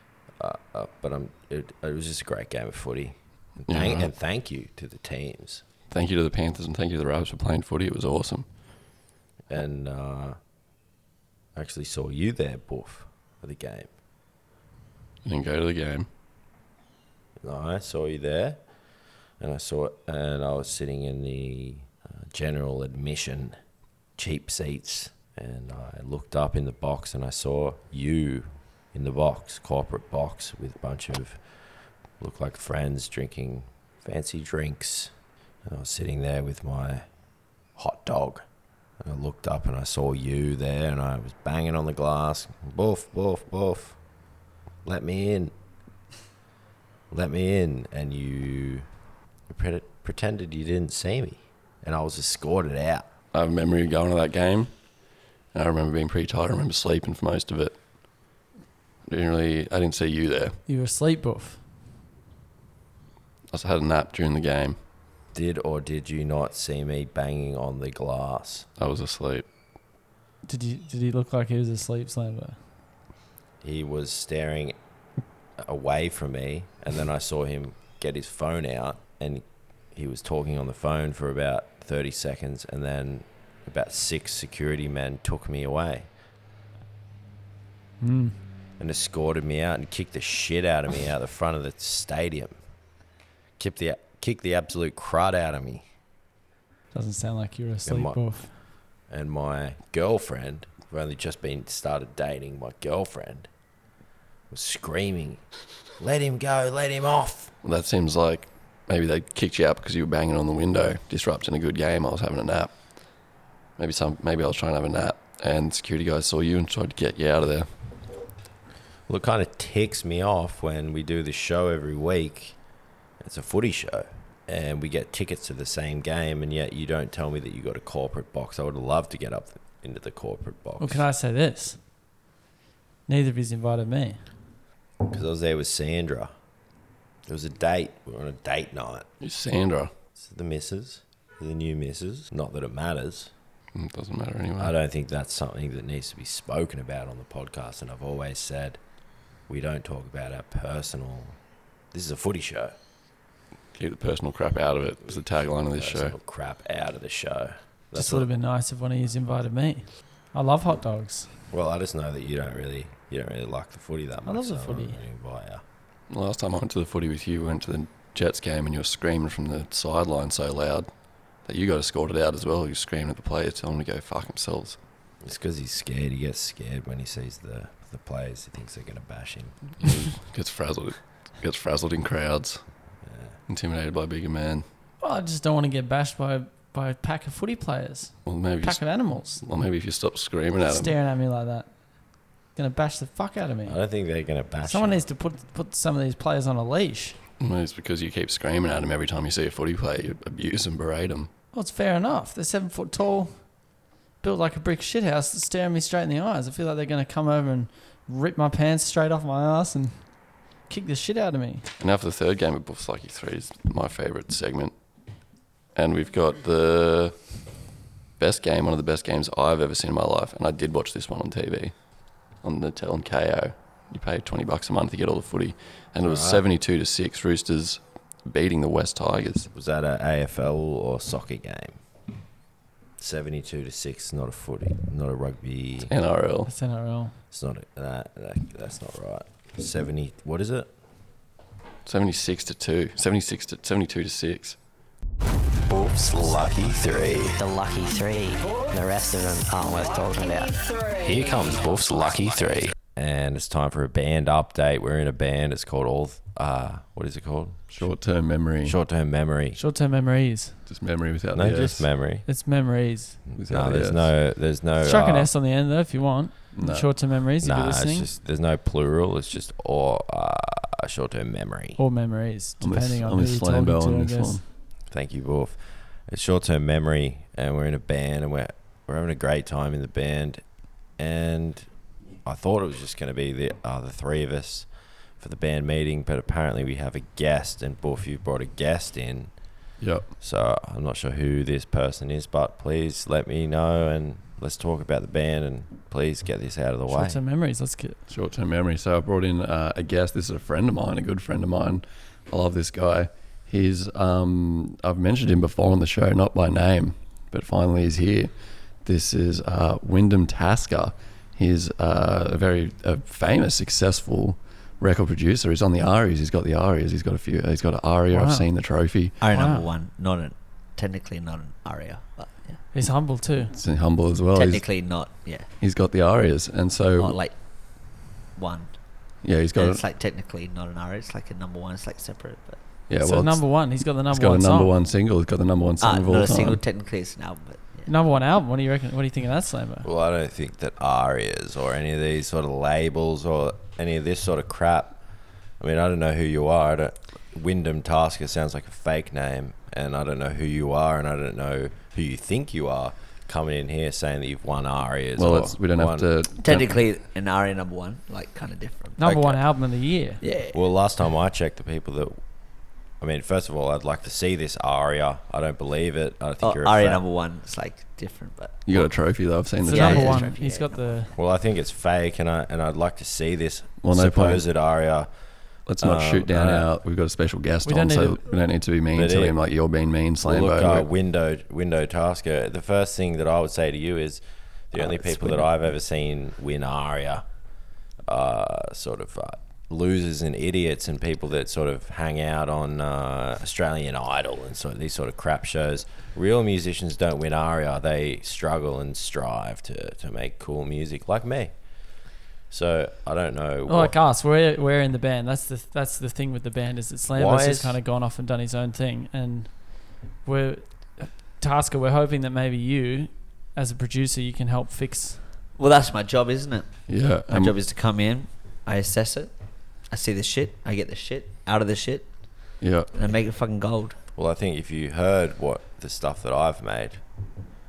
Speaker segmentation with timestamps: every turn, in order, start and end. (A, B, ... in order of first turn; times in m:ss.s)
0:00.4-0:05.6 A
0:03.7-0:04.1 B
0:05.9-0:08.5 B
0:09.5-0:10.4 A
0:11.6-0:13.9 A
0:15.2-0:16.1 B
0:17.4-0:18.6 A
0:19.4-0:23.6 A
0:24.2-0:31.7 A
0:32.2-0:35.1 A
0:35.6-0:37.1 A
0:37.8-0:38.5 A
0:39.0-0:44.0 A
0:44.8-0:45.5 A
0:47.1-0:48.9 A
0:49.5-0:53.1 A
0:53.3-0:54.7 B
0:55.5-0:57.8 B
0:59.1-1:00.6 B
1:00.7-1:01.6 C
1:03.5-1:04.8 B
1:05.3-1:08.7 A
1:08.8-1:09.5 B
1:10.5-1:12.6 C
1:13.6-1:14.8 A
1:15.6-1:26.1 A
1:28.0-1:28.4 C
1:28.8-1:32.6 A
1:33.6-1:35.9 A
1:36.9-1:38.5 C
1:37.8-1:38.2 A
1:39.1-1:43.5 A
1:44.5-1:45.4 A
1:46.0-1:47.5 A
1:47.6-1:53.0 B
1:53.8-1:57.7 B
1:59.1-2:02.6 A
2:03.2-2:11.1 A
2:10.8-2:11.8 C
2:13.1-2:14.3 C
2:15.1-2:16.3 A
2:17.3-2:19.1 A
2:19.2-2:19.9 B
2:20.2-2:23.3 A
2:23.7-2:24.7 B
2:24.6-2:28.8 A
2:29.5-2:31.4 A
2:31.9-2:32.8 A
2:33.8-2:36.1 B
2:35.7-2:38.3 A
2:37.9-2:41.3 C
2:41.5-2:45.6 A
2:44.3-2:45.0 C
2:46.1-2:50.9 B
2:51.4-2:54.8 B
2:55.2-2:59.6 A
2:59.8-3:02.6 B
3:03.0-3:03.3 A
3:03.5-3:04.6 B
3:05.0-3:09.4 C
3:08.2-3:11.0 B
3:10.6-3:11.7 C
3:12.5-3:13.8 C
3:13.6-3:15.0 A
3:14.6-3:17.2 C
3:17.4-3:21.3 B
3:21.5-3:23.6 C
3:24.2-3:31.6 C
3:31.8-3:34.7 B
3:35.8-3:37.5 B
3:38.2-3:41.8 B
3:42.4-3:49.5 B
3:46.0-3:46.4 A
3:49.5-3:51.8 A
3:53.0-3:55.9 A
3:55.9-3:56.5 B
3:56.4-3:57.2 C
3:57.3-4:00.7 A
4:01.9-4:04.6 B
4:05.7-4:07.4 A
4:07.3-4:12.7 D
4:11.0-4:17.9 A
4:17.7-4:18.8 B
4:18.6-4:19.6 A
4:19.6-4:20.6 C
4:20.7-4:21.9 B
4:21.3-4:22.3 A
4:22.3-4:23.2 C
4:23.3-4:25.3 A
4:23.4-4:24.1 B
4:24.8-4:28.1 C
4:26.5-4:26.9 B
4:27.4-4:31.8 A
4:31.8-4:34.4 C
4:32.6-4:34.4 B
4:34.9-4:41.7 A
4:42.2-4:49.3 A
4:49.8-4:50.1 B
4:50.2-4:57.2 A
4:56.9-4:58.0 C
4:58.1-5:19.2 B
5:18.1-5:18.5 C
5:19.2-5:22.6 E
5:19.3-5:19.7 C
5:22.7-5:23.5 C
5:23.5-5:24.7 B
5:24.4-5:25.5 E
5:25.6-5:27.2 B
5:27.0-5:32.6 E
5:29.2-5:29.8 B
5:32.9-5:36.6 B
5:33.0-5:34.7 C
5:35.8-5:37.9 E
5:37.9-5:39.9 C
5:39.8-5:45.0 A
5:45.6-5:56.1 A
5:55.2-5:56.8 B
5:56.4-5:59.3 E
5:59.0-6:00.2 C
5:59.1-5:59.4 A
6:00.2-6:00.6 E
6:00.5-6:02.2 A
6:03.0-6:07.0 A
6:06.4-6:08.6 E
6:08.6-6:10.3 B
6:09.6-6:11.0 E
6:09.6-6:11.2 C
6:11.1-6:15.1 A
6:13.8-6:14.4 B
6:15.6-6:20.9 B
6:15.8-6:16.7 A
6:17.6-6:18.2 C
6:18.9-6:19.4 A
6:20.2-6:27.3 A
6:24.8-6:25.4 B
6:28.0-6:44.0 A
6:43.7-6:55.2 C
6:47.1-6:47.8 A
6:55.6-7:04.0 E
6:56.9-6:57.6 B
7:02.6-7:02.9 B
7:04.2-7:07.0 A